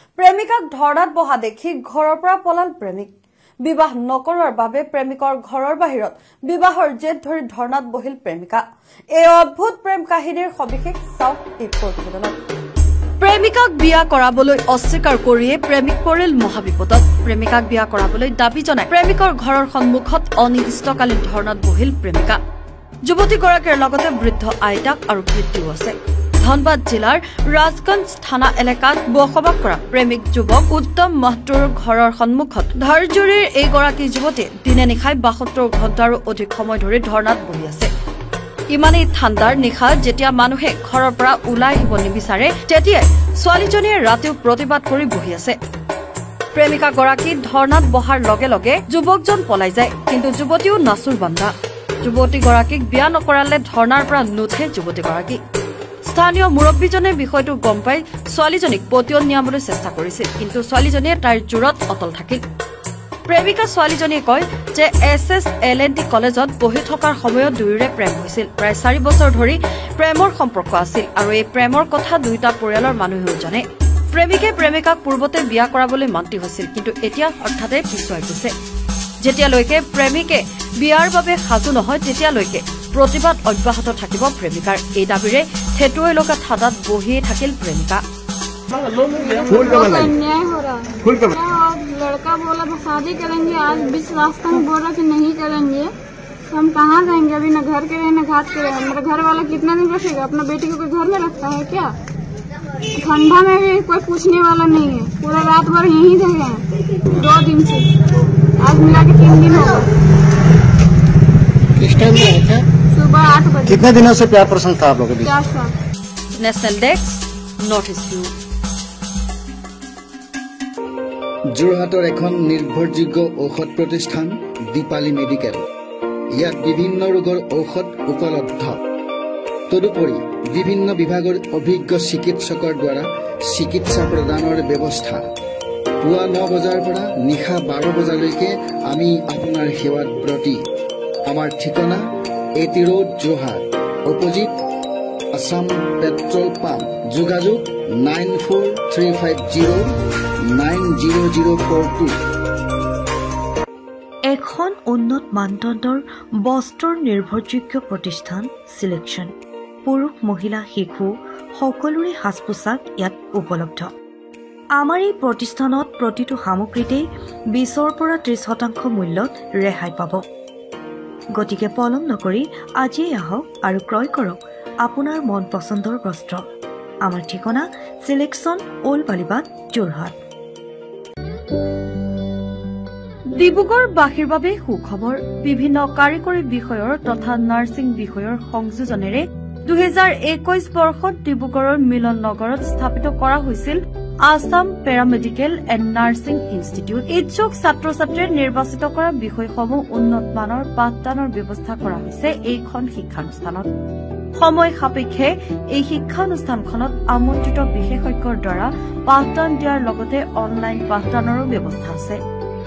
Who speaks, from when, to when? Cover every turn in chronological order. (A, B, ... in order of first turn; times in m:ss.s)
0:00.2-0:03.1 A
0:03.6-0:08.6 A
0:09.2-0:12.4 A
0:13.2-0:22.4 A
0:23.0-0:37.9 A
0:38.7-0:45.6 A
0:46.5-0:51.5 A
0:52.0-0:55.4 A
0:56.1-1:02.4 A
1:03.3-1:18.5 A
1:19.2-1:28.0 A
1:29.0-1:35.9 B
1:36.5-1:41.9 B
1:42.9-1:47.9 B
1:48.6-1:49.9 B
1:51.8-1:52.6 C
1:52.9-1:53.9 B
1:53.7-1:55.3 C
1:55.2-1:55.7 B
1:56.4-1:58.3 A
2:01.6-2:05.6 D
2:06.4-2:08.8 D
2:09.7-2:15.2 D
2:16.0-2:20.6 D
2:21.3-2:22.0 D
2:22.6-2:24.5 D
2:25.4-2:29.8 D
2:30.6-2:32.2 D
2:34.3-2:39.3 E
2:39.8-2:43.9 E
2:44.8-2:50.2 E
2:51.4-2:56.4 E
2:57.1-3:00.2 E
3:03.4-3:23.7 A
3:24.4-3:32.2 A